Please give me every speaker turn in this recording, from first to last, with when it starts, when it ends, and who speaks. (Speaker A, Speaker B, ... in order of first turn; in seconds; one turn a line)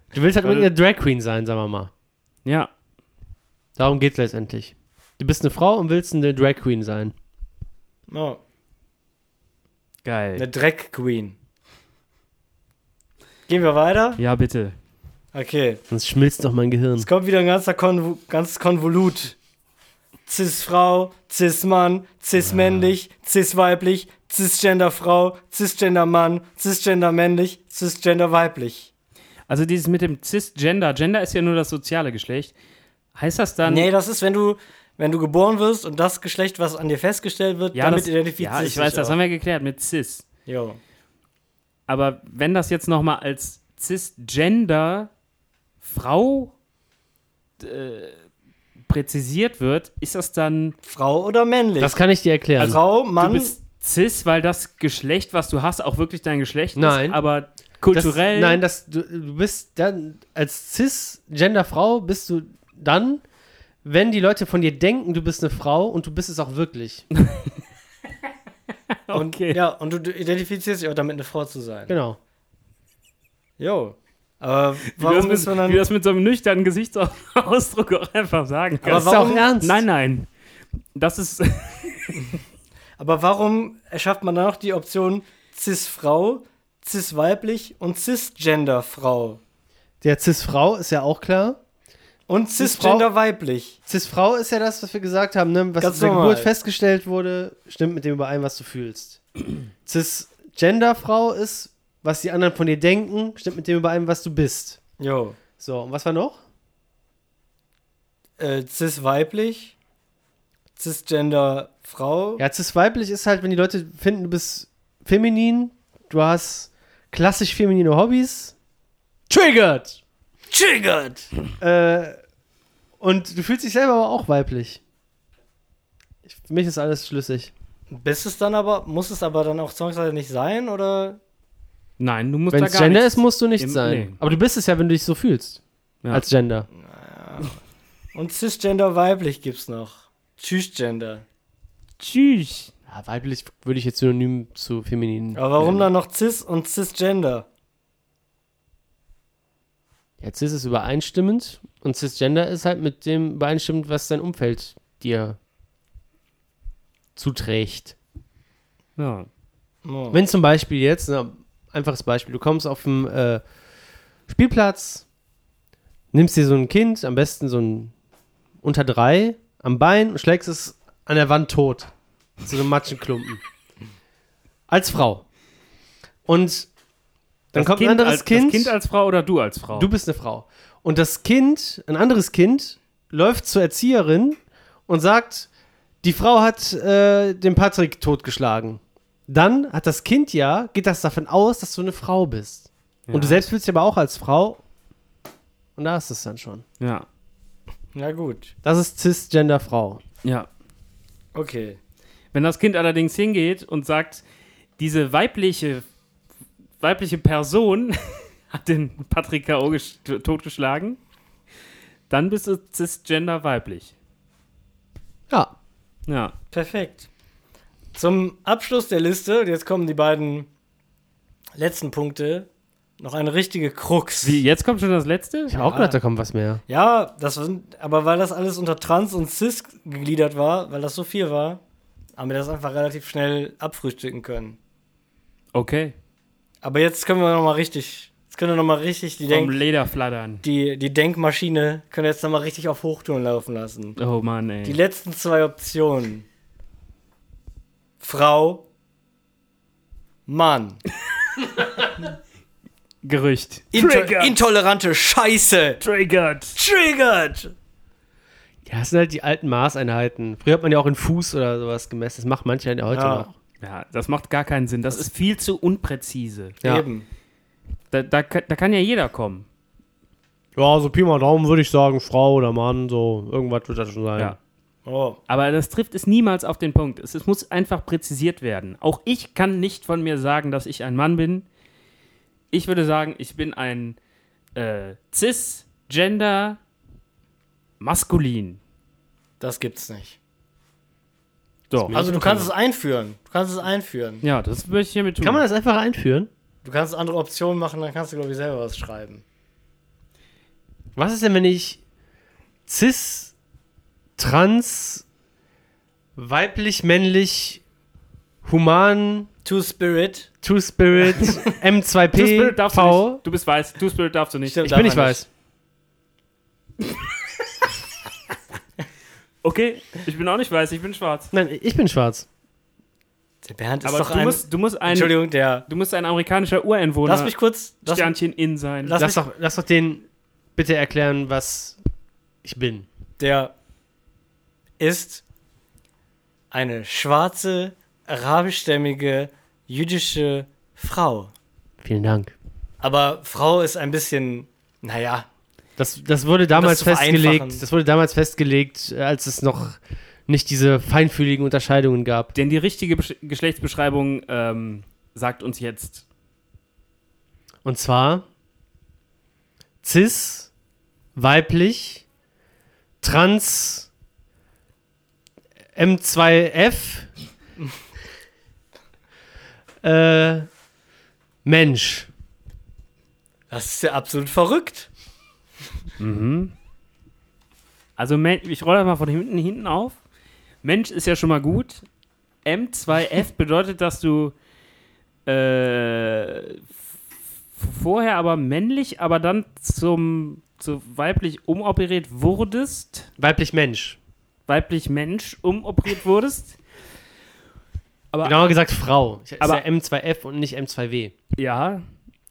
Speaker A: 0.1-1.9
Speaker B: 0.4-0.7
Speaker B: 2.5-2.7
Speaker A: 3.8-7.2
Speaker C: 8.1-8.4
Speaker B: 10.1-10.4
Speaker C: 10.4-11.4
Speaker C: 13.5-14.2
Speaker B: 14.2-14.8
Speaker C: 15.3-15.8
Speaker A: 15.9-17.1
Speaker C: 17.0-19.4
Speaker C: 20.3-28.9
Speaker B: 29.5-32.5
Speaker B: 33.1-33.9
Speaker C: 33.6-39.2
Speaker B: 37.7-40.3
Speaker C: 40.5-40.8
Speaker B: 41.9-45.1
Speaker B: 45.8-46.5
Speaker B: 47.6-48.2
Speaker B: 48.9-50.8
Speaker C: 50.9-52.0
Speaker A: 51.8-52.8
Speaker C: 52.6-53.5
Speaker B: 52.6-58.6
Speaker A: 56.8-57.2
Speaker A: 57.9-63.2
Speaker A: 63.8-67.0
Speaker B: 67.2-67.5
Speaker B: 68.9-69.6
Speaker C: 69.1-72.0
Speaker A: 71.9-72.2
Speaker C: 73.6-75.8
Speaker B: 74.9-80.3
Speaker C: 78.8-79.5
Speaker A: 78.9-79.8
Speaker B: 81.0-82.3
Speaker C: 83.0-89.4
Speaker A: 90.0-91.6
Speaker C: 92.3-93.8
Speaker A: 92.6-93.1
Speaker A: 93.9-99.2
Speaker C: 95.8-96.5
Speaker A: 99.8-104.8
Speaker C: 105.0-105.4
Speaker A: 105.6-106.4
Speaker C: 108.4-109.8
Speaker C: 110.8-112.4
Speaker A: 112.4-118.5
Speaker A: 119.3-120.0
Speaker C: 120.5-121.3
Speaker A: 121.6-122.2
Speaker A: 123.0-124.8
Speaker A: 126.2-127.5
Speaker C: 127.9-131.2
Speaker B: 132.0-134.2
Speaker A: 132.5-135.6
Speaker A: 136.1-136.7
Speaker C: 136.8-137.6
Speaker C: 138.1-141.2
Speaker B: 142.0-142.7
Speaker A: 142.9-145.9
Speaker C: 145.4-147.5
Speaker A: 150.2-155.4
Speaker A: 157.2-157.9
Speaker B: 159.0-159.3
Speaker C: 159.8-160.2
Speaker A: 160.1-163.4
Speaker A: 164.3-165.1
Speaker A: 166.1-167.9
Speaker A: 168.6-171.9
Speaker A: 172.4-173.4
Speaker A: 174.7-175.2
Speaker A: 176.3-176.7
Speaker A: 177.5-178.8
Speaker B: 177.6-179.9
Speaker A: 179.7-185.5
Speaker A: 186.0-194.6
Speaker B: 193.1-193.5
Speaker A: 195.8-196.6
Speaker B: 196.8-197.1
Speaker C: 197.9-198.5
Speaker A: 198.6-200.0
Speaker C: 201.3-201.8
Speaker B: 202.3-204.2
Speaker B: 204.8-205.9
Speaker B: 206.8-211.0
Speaker B: 212.1-213.9
Speaker B: 216.1-216.3
Speaker C: 216.5-217.1
Speaker C: 217.9-220.5
Speaker C: 221.6-222.5
Speaker C: 223.0-224.4
Speaker B: 224.2-225.8
Speaker A: 225.5-226.6
Speaker C: 225.6-226.0
Speaker C: 226.7-231.6
Speaker C: 232.2-234.6
Speaker B: 235.5-235.9
Speaker C: 236.6-239.6
Speaker B: 239.3-240.4
Speaker C: 240.4-244.0
Speaker B: 244.0-244.8
Speaker C: 244.6-246.3
Speaker C: 248.0-248.6
Speaker C: 250.3-250.8
Speaker B: 253.0-254.4
Speaker C: 253.7-255.8
Speaker B: 255.8-256.6
Speaker C: 256.6-257.5
Speaker A: 258.6-263.3
Speaker C: 262.9-263.3
Speaker B: 263.6-266.6
Speaker C: 266.6-267.1
Speaker B: 267.9-269.5
Speaker A: 270.6-274.4
Speaker C: 274.9-275.2
Speaker B: 275.3-281.5
Speaker B: 282.5-284.0
Speaker B: 284.6-286.6
Speaker B: 287.8-288.6
Speaker C: 289.4-290.2
Speaker B: 291.7-292.0
Speaker A: 291.8-292.5
Speaker C: 291.9-294.2
Speaker B: 294.2-295.4
Speaker A: 295.2-296.3
Speaker C: 296.6-299.2
Speaker A: 301.0-301.8
Speaker A: 302.7-303.3
Speaker A: 304.2-305.1
Speaker A: 306.2-307.6
Speaker A: 308.4-309.3
Speaker C: 309.4-310.3
Speaker A: 310.4-313.2
Speaker C: 311.1-311.5
Speaker B: 312.1-315.0
Speaker C: 314.5-315.2
Speaker A: 314.6-315.3
Speaker B: 319.4-321.3
Speaker A: 321.3-322.3
Speaker C: 323.4-325.7
Speaker B: 323.9-327.3
Speaker C: 327.1-328.1
Speaker B: 327.9-329.0
Speaker C: 328.8-329.2
Speaker A: 329.0-330.0
Speaker A: 330.6-331.8
Speaker A: 332.4-332.9
Speaker C: 333.2-333.5
Speaker C: 334.8-335.2
Speaker C: 336.5-341.3
Speaker A: 341.8-342.4
Speaker C: 342.8-345.3
Speaker A: 345.8-352.3
Speaker C: 346.5-347.6
Speaker B: 352.4-356.1
Speaker A: 357.6-358.2
Speaker A: 359.8-360.5
Speaker A: 361.1-362.1
Speaker A: 363.0-363.9
Speaker A: 365.8-367.1
Speaker A: 369.8-370.5
Speaker A: 371.4-372.1
Speaker C: 373.5-374.9
Speaker B: 376.0-376.5
Speaker B: 378.0-380.0
Speaker B: 380.6-381.9
Speaker B: 382.4-384.4
Speaker B: 385.3-386.6
Speaker B: 387.6-393.1
Speaker A: 393.2-394.0
Speaker B: 394.5-396.6
Speaker B: 398.1-398.4
Speaker A: 398.2-401.1
Speaker B: 401.4-401.8